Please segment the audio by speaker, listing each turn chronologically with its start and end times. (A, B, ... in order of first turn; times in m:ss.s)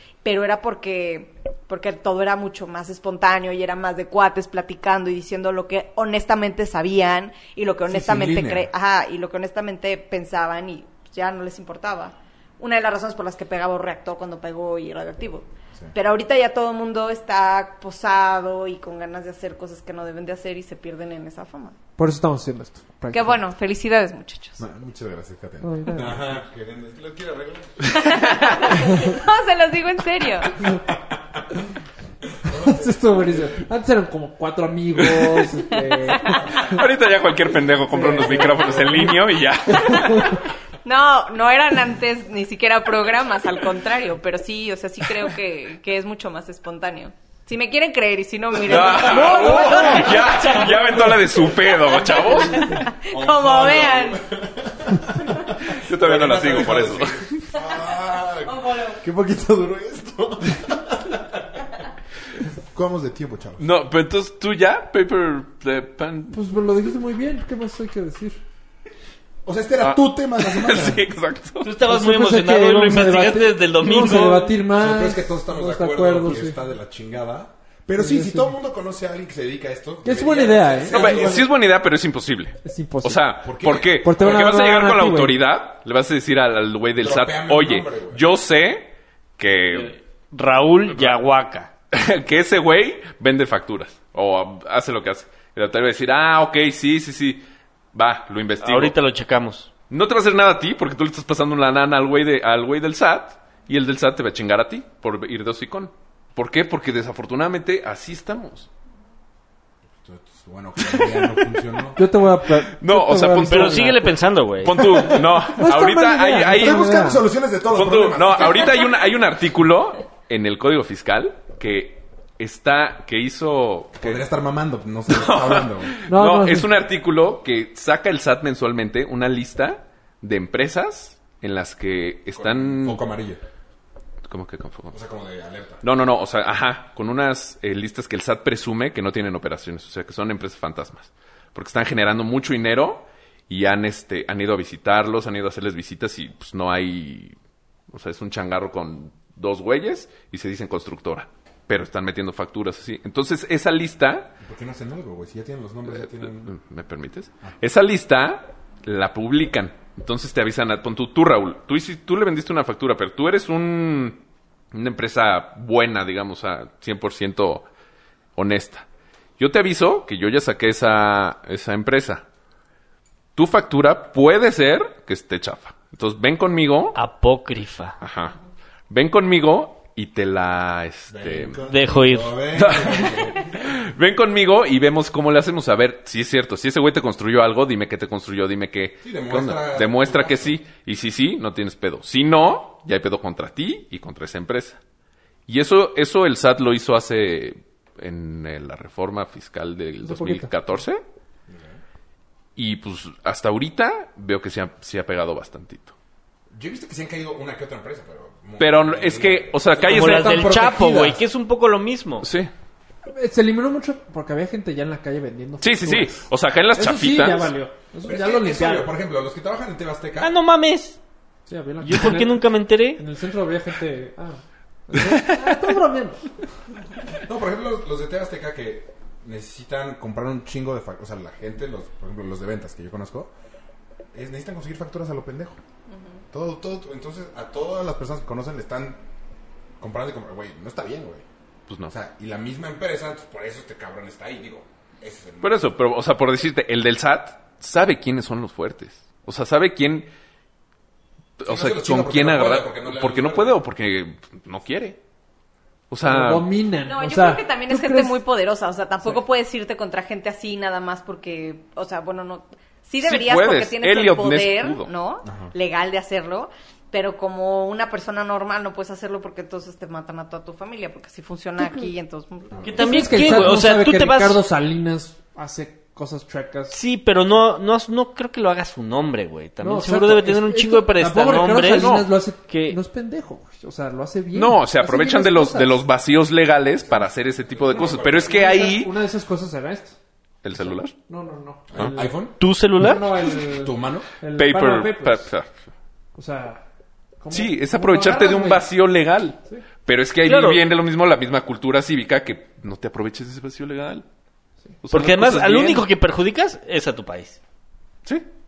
0:00.2-0:21.8 A
0:07.9-0:08.7 B
0:22.0-0:23.4 C
0:23.1-0:24.6 A
0:24.6-0:28.0 B
0:25.6-0:26.2 C
0:27.9-0:30.6 A
0:28.0-0:28.5 D
0:30.9-0:31.4 B
0:32.4-0:33.6 B
0:32.5-0:36.8 C
0:35.0-0:35.4 D
0:35.7-0:36.5 A
0:36.5-0:40.4 D
0:37.9-0:39.2 C
0:38.4-0:39.1 B
0:39.8-0:54.2 A
0:39.9-0:40.3 C
0:48.6-0:52.8 D
0:48.7-0:51.0 B
0:53.0-1:01.4 B
0:55.6-0:57.4 D
0:58.4-0:59.0 A
1:02.7-1:03.6 B
1:03.6-1:06.4 D
1:06.3-1:08.4 C
1:09.4-1:11.0 B
1:09.8-1:11.7 D
1:11.6-1:14.6 E
1:11.8-1:16.6 C
1:14.7-1:21.5 B
1:18.0-1:18.5 C
1:20.0-1:21.0 C
1:20.9-1:29.9 D
1:22.6-1:23.4 C
1:23.4-1:24.1 B
1:24.0-1:25.4 C
1:27.0-1:28.2 B
1:29.7-1:31.7 E
1:31.9-1:39.0 D
1:38.6-1:39.7 E
1:39.9-1:48.7 D
1:50.0-1:52.0 B
1:50.9-1:51.6 D
1:52.0-1:54.1 C
1:52.6-1:53.9 D
1:53.5-1:55.2 E
1:54.6-1:56.9 D
1:55.3-1:57.2 C
1:56.5-1:58.9 B
1:57.7-2:04.2 D
2:03.9-2:05.9 B
2:05.1-2:13.0 D
2:06.1-2:06.7 C
2:12.3-2:13.4 B
2:14.3-2:15.0 D
2:14.9-2:15.8 B
2:15.8-2:27.4 D
2:27.9-2:34.3 D
2:34.4-2:36.5 B
2:35.9-2:47.7 D
2:48.4-2:48.8 D
2:49.4-2:52.2 D
2:53.4-2:57.0 D
2:56.9-2:58.0 E
2:58.0-2:58.4 D
2:58.9-3:01.6 D
3:01.1-3:03.7 B
3:01.6-3:02.4 E
3:02.5-3:14.8 D
3:09.0-3:10.6 B
3:15.5-3:21.0 D
3:20.0-3:20.5 C
3:21.5-3:21.8 B
3:22.6-3:25.9 D
3:26.5-3:31.2 B
3:28.6-3:30.5 D
3:29.8-3:32.3 E
3:32.2-3:32.5 D
3:33.1-3:36.2 C
3:35.6-3:37.5 D
3:36.8-3:38.9 C
3:38.0-3:40.3 B
3:40.2-3:41.0 E
3:41.5-3:46.3 C
3:41.8-3:43.0 E
3:45.0-3:45.4 D
3:47.2-3:53.3 B
3:54.1-3:55.6 B
3:55.9-3:56.2 A
3:56.3-3:59.0 B
3:59.8-4:01.2 B
4:01.7-4:01.9 D
4:01.9-4:05.7 B
4:05.4-4:10.1 D
4:11.4-4:15.0 D
4:11.4-4:13.6 B
4:15.9-4:16.5 D
4:16.0-4:18.2 C
4:16.8-4:33.2 A
4:23.0-4:24.9 D
4:25.2-4:25.5 B
4:31.6-4:31.9 C
4:32.5-4:33.4 B
4:32.6-4:34.4 E
4:32.8-4:36.8 C
4:36.7-4:42.8 E
4:39.6-4:45.8 C
4:41.8-4:42.1 D
4:44.3-4:48.9 D
4:46.8-4:48.6 B
4:48.0-4:50.0 C
4:50.4-4:50.9 D
4:50.9-4:52.2 C
4:51.7-4:52.4 B
4:52.4-4:53.1 E
4:52.7-4:55.3 C
4:53.3-4:54.0 B
4:54.3-4:55.5 D
4:56.1-4:56.6 C
4:57.2-4:58.6 C
4:57.3-5:04.0 D
5:00.2-5:00.6 E
5:04.8-5:05.8 D
5:04.9-5:07.4 E